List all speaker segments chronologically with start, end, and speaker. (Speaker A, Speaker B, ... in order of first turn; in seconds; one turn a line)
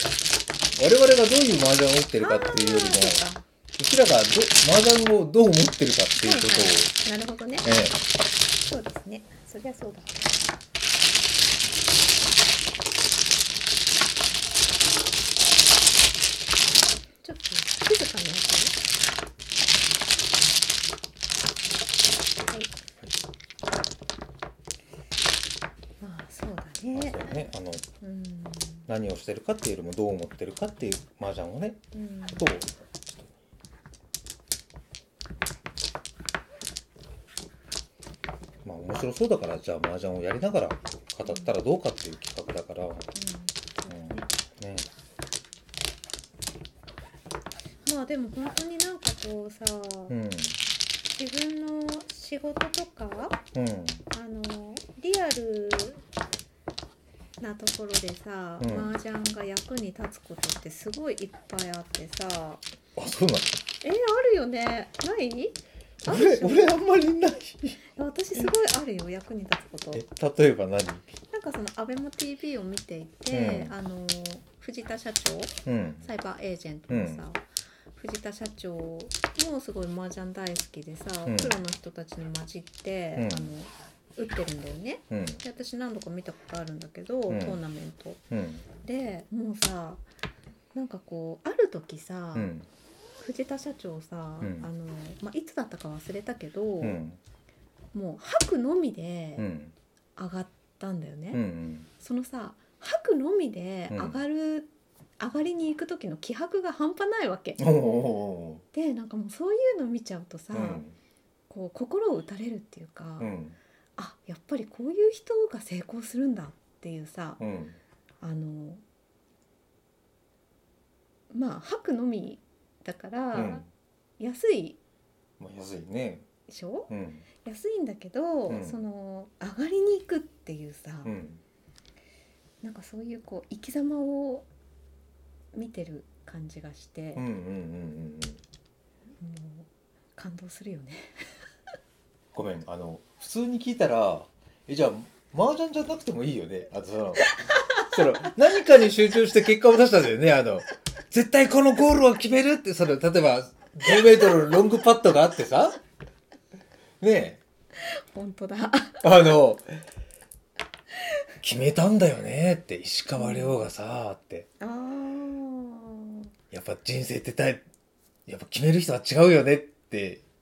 Speaker A: 0.8-3.2
Speaker B: 2.2-3.4
Speaker A: 3.7-6.9
Speaker B: 6.2-7.7
Speaker A: 7.6-8.0
Speaker B: 8.6-10.2
Speaker B: 17.2-18.8
Speaker A: 22.4-23.1
Speaker B: 26.0-27.3
Speaker A: 26.9-27.8
Speaker B: 28.0-28.9
Speaker A: 28.9-31.8
Speaker B: 31.9-32.5
Speaker A: 32.3-32.7
Speaker A: 38.6-43.1
Speaker B: 41.2-41.5
Speaker B: 43.1-44.3
Speaker A: 43.9-44.9
Speaker B: 47.8-50.1
Speaker A: 50.1-50.6
Speaker B: 51.1-53.4
Speaker A: 53.5-54.0
Speaker B: 54.1-56.0
Speaker B: 57.4-62.6
Speaker A: 58.6-58.9
Speaker A: 63.0-63.5
Speaker B: 63.8-66.7
Speaker A: 66.0-67.8
Speaker B: 67.9-70.0
Speaker A: 69.9-71.1
Speaker B: 71.3-88.2
Speaker A: 73.3-73.7
Speaker A: 75.7-76.1
Speaker A: 76.9-77.2
Speaker A: 81.2-81.6
Speaker A: 83.2-83.5
Speaker A: 85.1-85.4
Speaker A: 87.3-87.6
Speaker A: 88.3-88.6
Speaker B: 88.8-90.0
Speaker B: 90.7-92.5
Speaker A: 92.3-92.7
Speaker B: 93.2-97.0
Speaker A: 94.4-94.7
Speaker A: 96.8-97.2
Speaker B: 97.9-99.5
Speaker A: 99.4-99.7
Speaker B: 100.2-101.4
Speaker A: 101.3-101.9
Speaker B: 102.0-107.7
Speaker A: 103.9-104.2
Speaker A: 107.6-108.6
Speaker B: 108.7-110.8
Speaker A: 110.5-110.9
Speaker B: 111.5-113.3
Speaker A: 113.2-113.6
Speaker B: 114.0-117.4
Speaker A: 117.4-117.8
Speaker B: 118.2-118.8
Speaker B: 121.3-123.7
Speaker A: 123.3-123.7
Speaker B: 124.2-124.8
Speaker A: 125.4-126.2
Speaker B: 126.5-126.9
Speaker A: 126.9-127.2
Speaker B: 127.4-131.1
Speaker A: 128.5-128.8
Speaker A: 131.0-131.4
Speaker B: 132.6-134.5
Speaker B: 135.5-137.2
Speaker A: 137.1-138.4
Speaker B: 139.2-141.4
Speaker A: 142.3-155.8
Speaker B: 147.2-147.9
Speaker A: 157.0-157.4
Speaker B: 157.8-159.4
Speaker A: 159.0-159.8
Speaker B: 161.0-161.2
Speaker A: 161.4-164.5
Speaker B: 163.1-163.6
Speaker B: 164.6-166.3
Speaker A: 166.5-167.6
Speaker A: 168.3-170.2